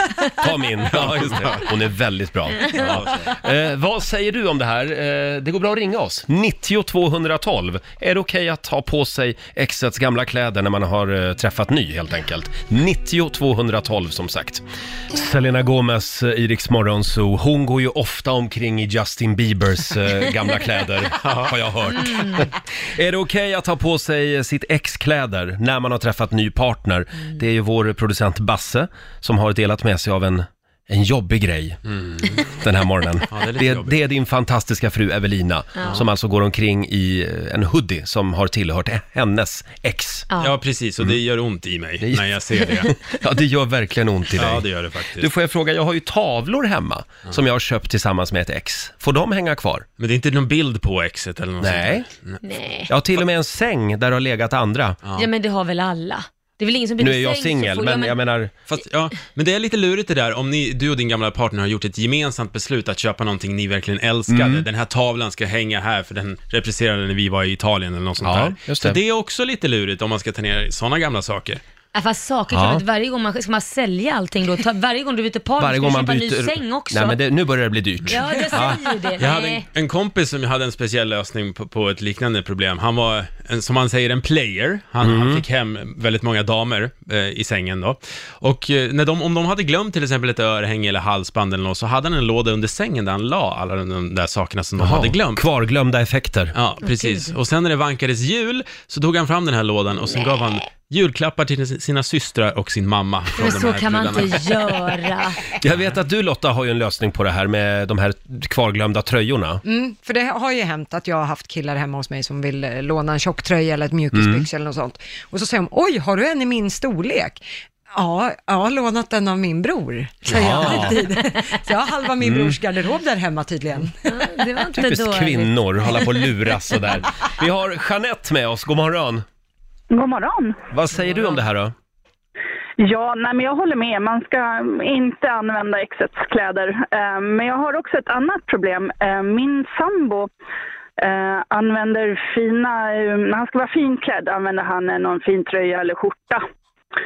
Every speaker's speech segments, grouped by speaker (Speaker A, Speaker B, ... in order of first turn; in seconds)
Speaker A: 0.4-31.8, 32.5-40.3, 42.0-49.9, 51.6-52.1, 52.9-55.0, 57.0-58.5, 64.3-64.6, 68.2-69.0, 72.5-72.8, 75.6-78.8, 85.0-85.4, 94.8-96.5, 105.6-109.6, 114.1-114.5, 120.3-121.0, 122.2-122.6, 124.7-129.2, 130.7-131.7
Speaker B: 0.9-1.7, 2.7-3.3, 21.2-21.6, 31.9-32.4, 33.3-33.9, 40.4-42.9, 44.4-45.3, 50.0-52.4, 55.0-55.3, 58.7-71.6, 79.2-95.4, 96.5-104.8
Speaker C: 22.0-22.5, 35.8-36.0, 52.4-52.9, 55.1-58.2, 71.9-77.2, 78.1-79.6, 96.8-97.3, 103.4-105.5, 120.4-121.5, 124.1-126.3
Speaker D: 109.6-124.3
Speaker E: 129.9-130.6, 132.8-140.3, 141.0-146.4